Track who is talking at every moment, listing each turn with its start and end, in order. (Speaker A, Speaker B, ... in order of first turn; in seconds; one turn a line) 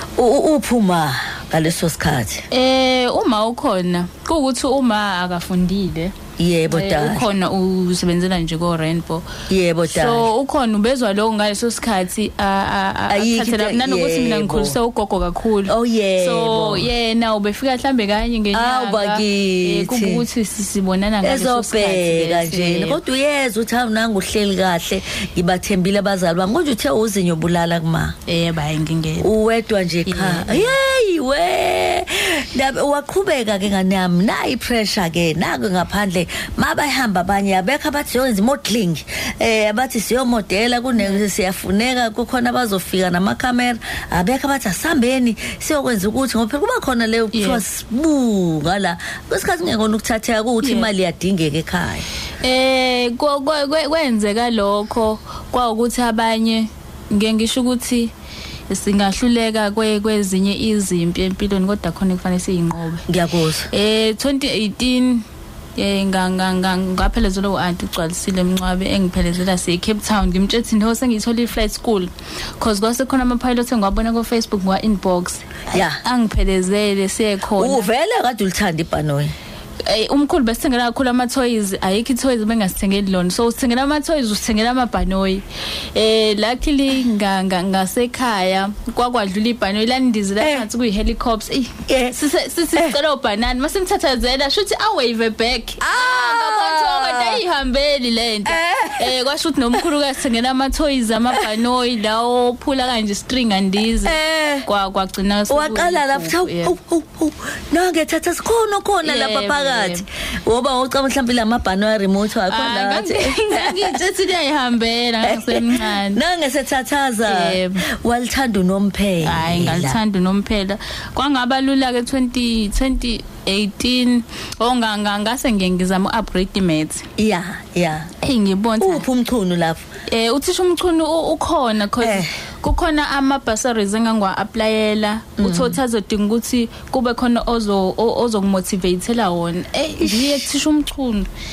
Speaker A: 0.2-2.5
Speaker B: 2.5-6.2
Speaker A: 6.4-7.3
Speaker B: 6.7-9.3
Speaker A: 9.5-10.3
Speaker B: 9.8-23.0
Speaker A: 13.1-14.8
Speaker A: 15.7-16.9
Speaker A: 18.5-20.2
Speaker A: 21.2-28.2
Speaker B: 28.3-29.3
Speaker A: 29.2-52.1
Speaker B: 30.1-30.8
Speaker B: 47.3-47.6
Speaker B: 50.6-50.9
Speaker B: 52.4-58.1
Speaker B: 58.7-63.1
Speaker A: 63.1-63.7
Speaker B: 63.7-77.9
Speaker A: 75.7-76.0
Speaker A: 77.6-79.3
Speaker B: 79.8-106.8
Speaker A: 90.4-90.7
Speaker A: 91.9-92.2
Speaker A: 95.8-97.4
Speaker A: 98.5-99.1
Speaker A: 104.0-104.7
Speaker A: 105.5-114.0
Speaker B: 109.0-110.0
Speaker B: 112.5-116.2
Speaker A: 115.2-120.0
Speaker B: 117.2-117.8
Speaker B: 119.2-127.1
Speaker A: 127.2-128.1
Speaker B: 128.2-129.1
Speaker A: 128.8-129.8
Speaker B: 130.1-141.3
Speaker A: 132.0-132.3
Speaker A: 135.4-135.8
Speaker A: 140.0-140.4